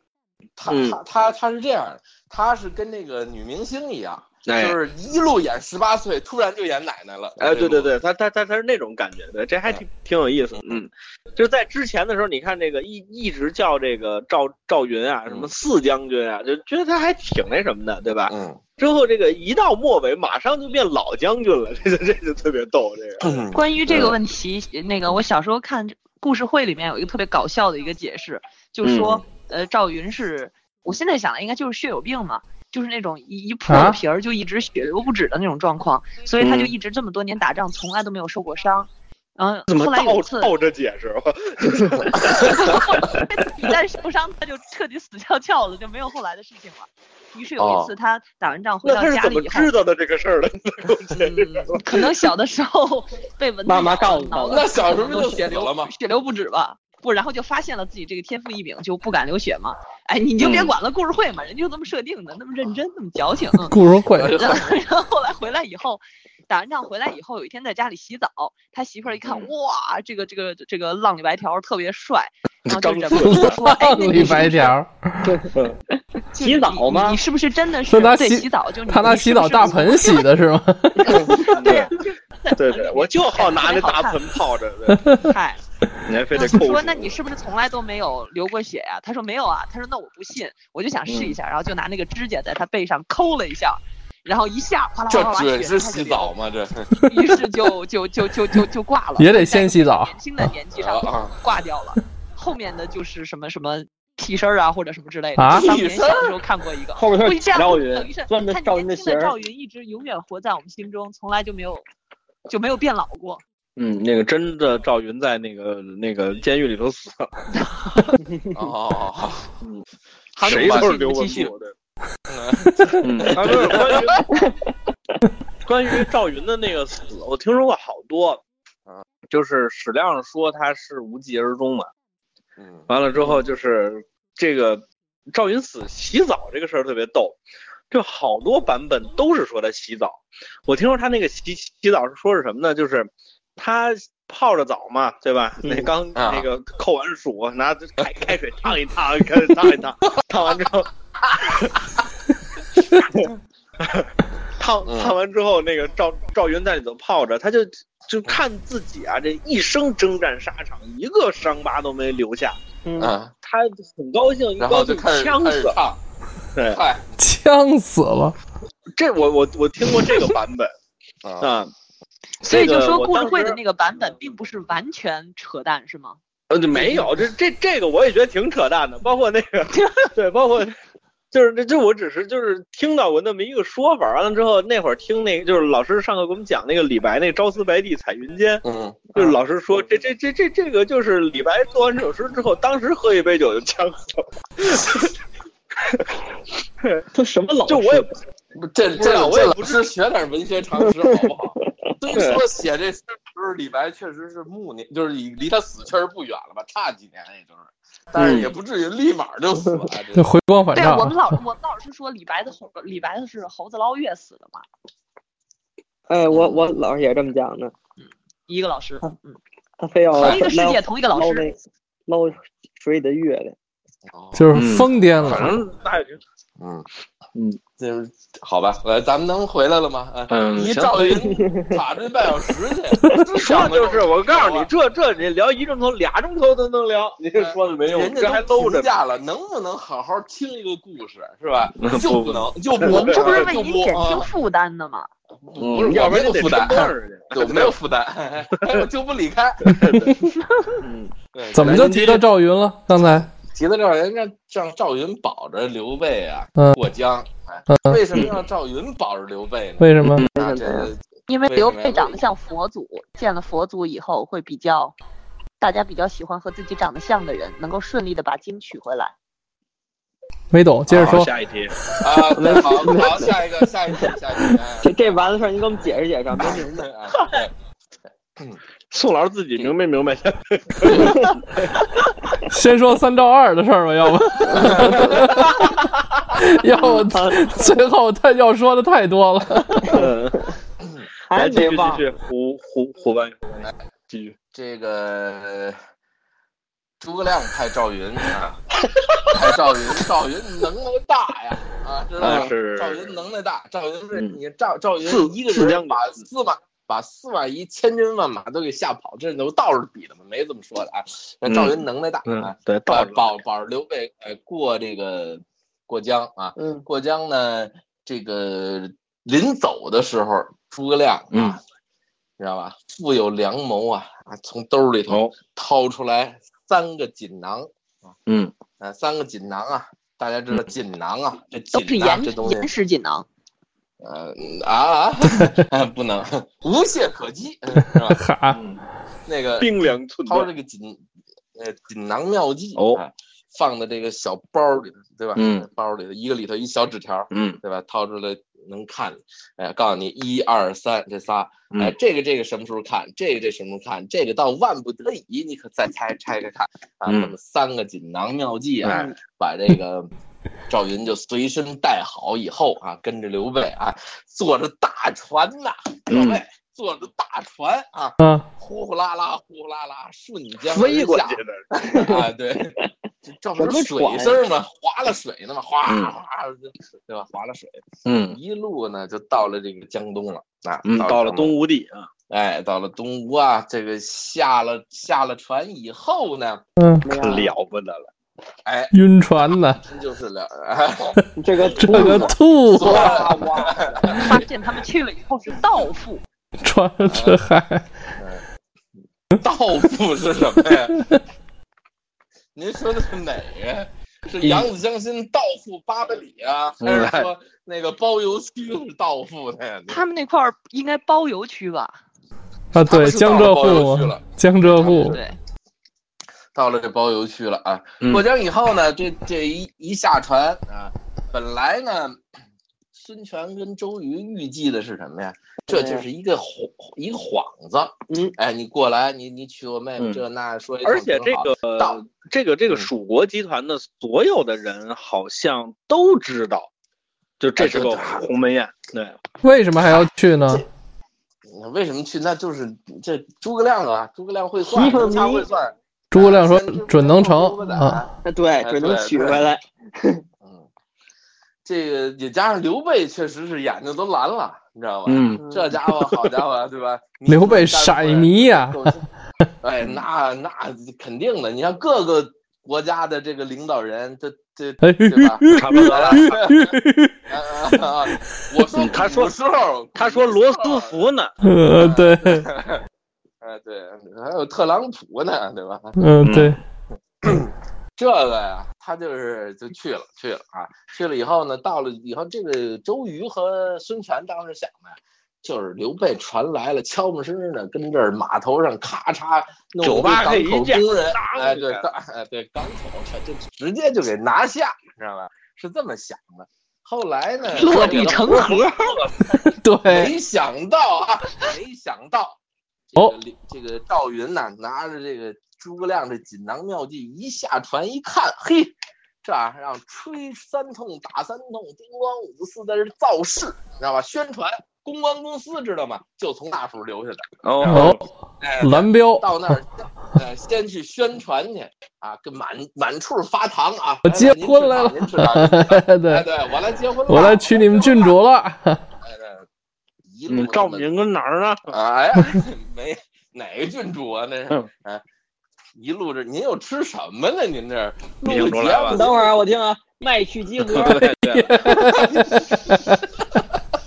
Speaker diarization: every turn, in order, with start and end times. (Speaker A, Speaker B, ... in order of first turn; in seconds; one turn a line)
Speaker A: 0.6-7.9
Speaker B: 0.7-1.0
Speaker B: 4.5-4.8
Speaker B: 7.4-23.4
Speaker A: 18.3-18.6
Speaker A: 23.2-24.1
Speaker C: 23.5-40.5
Speaker B: 28.8-29.2
Speaker D: 33.7-34.0
Speaker B: 36.4-36.7
Speaker B: 39.7-43.1
Speaker C: 42.3-49.7
Speaker A: 47.6-47.9
Speaker B: 48.8-51.8
Speaker C: 51.2-74.7
Speaker E: 53.6-54.7
Speaker A: 54.5-55.9
Speaker B: 60.4-60.7
Speaker D: 63.6-64.4
Speaker A: 64.1-64.7
Speaker B: 72.7-73.6
Speaker D: 73.2-75.4
Speaker E: 75.2-75.5
Speaker E: 76.3-77.2
Speaker C: 76.3-80.3
Speaker D: 77.9-81.5
Speaker C: 81.0-84.2
Speaker B: 81.5-81.9
Speaker B: 82.5-85.1
Speaker C: 85.1-85.6
Speaker B: 86.0-87.2
Speaker C: 86.3-96.3
Speaker B: 91.1-91.3
Speaker A: 95.1-96.9
Speaker C: 97.0-111.8
Speaker D: 99.2-100.1
Speaker A: 100.8-101.3
Speaker D: 105.4-105.7
Speaker A: 105.5-106.4
Speaker E: 107.0-109.3
Speaker C: 112.5-113.4
Speaker B: 113.8-117.4
Speaker A: 118.5-119.5
Speaker A: 120.4-120.9
Speaker C: 120.4-121.5
Speaker B: 120.4-121.7
Speaker A: 122.3-124.2
Speaker B: 123.0-124.2
Speaker B: 125.7-128.4
Speaker B: 129.3-131.9
Speaker A: 132.6-132.9
Speaker B: 132.9-137.4
Speaker B: 137.9-151.8
Speaker E: 145.6-145.9
Speaker A: 146.1-146.5
Speaker B: 153.0-162.6
Speaker A: 154.8-155.1
Speaker E: 162.8-163.1
Speaker A: 163.0-163.3
Speaker B: 163.4-165.8
Speaker A: 164.6-166.0
Speaker B: 166.6-166.8
Speaker A: 166.7-167.2
Speaker D: 167.2-168.3
Speaker B: 168.9-170.7
Speaker A: 171.2-171.5
Speaker B: 171.4-171.7
Speaker C: 172.4-176.2
Speaker B: 172.4-173.6
Speaker B: 176.5-180.8
Speaker A: 176.7-177.1
Speaker B: 181.3-188.6
Speaker A: 188.6-189.3
Speaker B: 189.1-195.1
Speaker B: 195.9-196.1
Speaker E: 197.1-198.1
Speaker B: 197.7-198.1
Speaker A: 198.5-210.3
Speaker B: 198.9-199.8
Speaker B: 202.1-202.4
Speaker B: 208.2-208.5
Speaker D: 210.1-211.3
Speaker C: 210.7-214.6
Speaker E: 216.1-217.7
Speaker A: 216.3-216.6
Speaker C: 218.5-219.4
Speaker E: 219.8-221.6
Speaker C: 220.2-221.5
Speaker E: 222.1-223.6
Speaker A: 224.1-225.6
Speaker D: 224.3-225.6
Speaker B: 224.5-226.2
Speaker A: 226.6-226.8
Speaker A: 227.8-234.7
Speaker B: 230.3-231.2
Speaker E: 231.2-231.8
Speaker B: 233.3-238.9
Speaker A: 237.3-244.3
Speaker B: 241.8-243.5
Speaker C: 242.8-245.1
Speaker A: 245.4-250.1
Speaker B: 245.6-247.7
Speaker B: 248.6-248.8
Speaker B: 249.7-250.2
Speaker B: 250.8-252.2
Speaker A: 251.3-252.2
Speaker D: 251.5-253.3
Speaker A: 252.9-262.2
Speaker D: 257.7-258.0
Speaker D: 259.8-260.2
Speaker B: 260.0-260.3
Speaker E: 260.2-260.9
Speaker C: 261.3-264.9
Speaker C: 265.6-269.1
Speaker D: 270.5-271.3
Speaker A: 270.9-271.2
Speaker B: 270.9-271.8
Speaker A: 271.9-275.3
Speaker E: 272.3-273.4
Speaker E: 274.0-277.4
Speaker A: 276.3-277.5
Speaker B: 278.9-281.8
Speaker A: 280.8-281.2
Speaker E: 280.9-281.3
Speaker D: 282.5-290.0
Speaker A: 284.5-285.5
Speaker E: 286.8-287.7
Speaker E: 289.8-290.1
Speaker B: 289.9-290.4
Speaker E: 291.3-292.0
Speaker B: 291.3-294.4
Speaker A: 294.5-295.8
Speaker A: 297.0-298.6
Speaker A: 299.3-321.6
Speaker B: 302.2-303.1
Speaker B: 305.0-306.1
Speaker B: 311.4-313.2
Speaker E: 316.6-316.8
Speaker A: 322.4-327.7
Speaker B: 325.1-325.3
Speaker B: 328.3-328.5
Speaker A: 328.8-332.7
Speaker C: 331.7-333.3
Speaker A: 334.0-338.2
Speaker D: 338.1-338.6
Speaker B: 338.5-338.8
Speaker A: 339.2-339.7
Speaker B: 339.6-340.5
Speaker A: 340.2-341.0
Speaker A: 341.5-360.1
Speaker B: 345.4-345.7
Speaker B: 347.3-347.6
Speaker B: 357.1-357.3
Speaker B: 358.8-359.1
Speaker A: 360.7-372.8
Speaker B: 366.1-366.4
Speaker D: 368.2-368.4
Speaker B: 370.7-371.6
Speaker E: 371.8-372.3
Speaker A: 373.3-381.6
Speaker E: 373.6-374.4
Speaker B: 375.9-376.1
Speaker B: 378.0-378.4
Speaker B: 380.8-382.1
Speaker A: 382.3-386.6
Speaker D: 386.8-387.1
Speaker E: 387.0-387.5
Speaker B: 387.1-388.1
Speaker A: 388.6-388.9
Speaker D: 388.9-389.8
Speaker A: 389.4-394.4
Speaker E: 391.4-394.3
Speaker D: 391.8-393.2
Speaker C: 394.1-396.2
Speaker D: 396.6-397.9
Speaker A: 397.1-397.4
Speaker A: 398.2-398.4
Speaker A: 399.4-401.2
Speaker A: 402.5-410.0
Speaker B: 404.4-404.7
Speaker B: 406.8-407.3
Speaker C: 409.9-412.0
Speaker D: 412.7-415.2
Speaker A: 412.8-415.2
Speaker C: 414.9-415.4
Speaker A: 416.5-422.2
Speaker A: 422.9-432.0
Speaker E: 425.7-426.0
Speaker B: 430.0-430.2
Speaker B: 430.8-436.7
Speaker B: 437.4-439.2
Speaker A: 437.6-438.2
Speaker D: 439.4-440.6
Speaker A: 441.5-448.1
Speaker E: 444.6-445.4
Speaker D: 446.1-448.0
Speaker E: 448.2-450.2
Speaker A: 448.6-449.5
Speaker A: 450.4-450.7
Speaker A: 451.6-459.0
Speaker B: 455.1-456.3
Speaker D: 457.3-459.0
Speaker A: 459.6-466.7
Speaker D: 464.8-467.2
Speaker B: 465.5-466.4
Speaker A: 467.3-471.1
Speaker B: 468.7-469.3
Speaker B: 469.9-471.4
Speaker D: 471.4-472.5
Speaker A: 471.7-472.8
Speaker A: 473.4-475.9
Speaker D: 476.0-476.6
Speaker B: 476.2-476.5
Speaker A: 477.2-498.6
Speaker B: 489.8-491.8
Speaker C: 497.5-498.7
Speaker B: 497.6-499.1
Speaker D: 499.5-500.1
Speaker A: 499.8-502.4
Speaker A: 502.9-528.1
Speaker B: 517.4-518.0
Speaker D: 517.7-518.0
Speaker D: 518.6-519.3
Speaker D: 524.0-526.2
Speaker D: 527.1-528.8
Speaker A: 529.0-529.5
Speaker A: 530.0-530.9
Speaker B: 530.3-531.7
Speaker A: 531.7-535.0
Speaker A: 535.8-539.4
Speaker B: 538.2-539.0
Speaker E: 538.9-541.1
Speaker B: 540.6-541.9
Speaker D: 541.1-543.0
Speaker A: 541.7-542.4